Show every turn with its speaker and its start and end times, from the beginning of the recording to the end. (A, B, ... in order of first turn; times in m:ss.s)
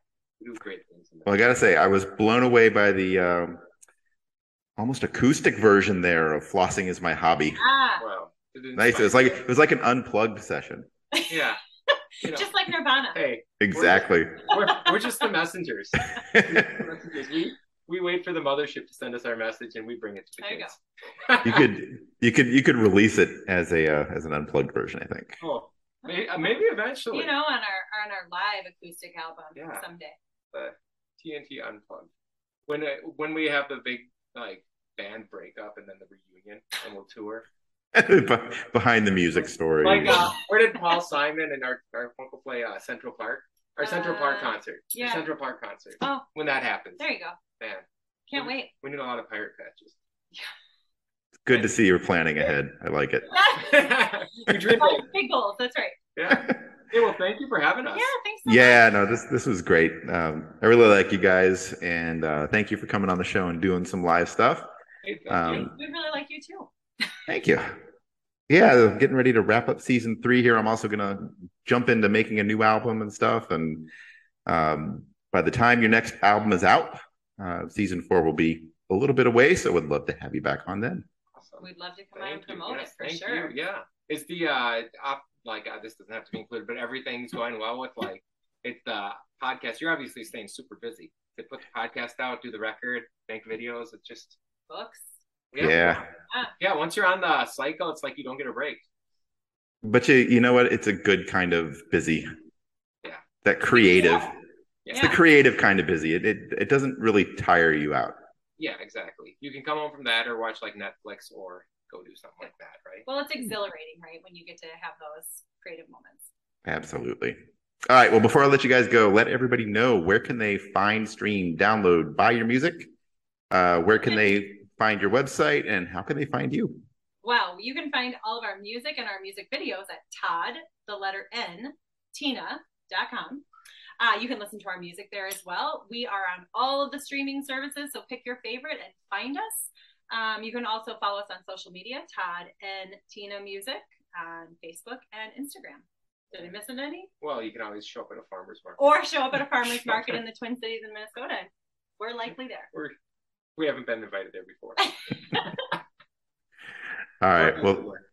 0:00.4-0:01.5 A
0:01.3-0:03.6 B
0:04.8-0:07.6 B
0:07.6-0:08.0 C
0:08.0-0:09.5 A
0:08.8-0:10.9 B
0:11.3-0:11.6 A
0:12.2-0:13.2 C
0:12.2-0:12.6 A
0:13.1-0:21.7 A
0:13.6-0:14.6 B
0:16.2-0:16.6 B
0:20.4-0:20.7 C
0:21.4-0:25.4 B
0:25.4-0:27.4 A
0:26.0-0:26.6 C
0:27.1-0:30.2 C
0:29.6-0:29.8 A
0:30.5-0:32.1 A
0:32.7-0:37.5 A
0:37.9-0:40.3 B
0:39.8-0:47.1 A
0:43.8-0:45.3 C
0:46.0-0:46.3 C
0:47.0-0:47.4 C
0:47.6-0:50.0 A
0:48.3-0:48.7 C
0:51.5-0:53.4 B
0:53.3-0:53.9 C
0:53.5-0:55.1 A
0:54.5-0:56.0 C
0:56.2-0:58.1 A
0:56.3-0:56.6 B
0:57.9-0:58.9 C
0:58.4-1:04.6 B
1:05.0-1:05.8 A
1:05.3-1:05.7 B
1:05.7-1:06.7 C
1:07.3-1:07.7 B
1:08.5-1:13.9 B
1:14.5-1:21.1 B
1:21.4-1:34.4 A
1:21.6-1:23.5 C
1:34.7-1:35.0 C
1:35.5-1:36.1 A
1:35.6-1:36.0 B
1:36.6-1:38.8 A
1:39.8-1:42.3 B
1:43.4-1:44.4 B
1:43.7-1:44.3 C
1:44.8-1:45.2 A
1:44.9-1:45.2 C
1:44.9-1:48.2 B
1:48.6-1:53.1 A
1:53.1-1:56.2 C
1:56.6-1:57.4 B
1:57.9-2:02.8 B
2:03.5-2:06.8 B
2:04.0-2:04.4 C
2:07.2-2:13.4 C
2:14.0-2:27.1 C
2:27.2-2:28.8 A
2:28.8-2:32.7 C
2:29.7-2:30.2 A
2:33.6-2:34.8 A
2:37.2-2:37.9 B
2:37.4-2:38.0 A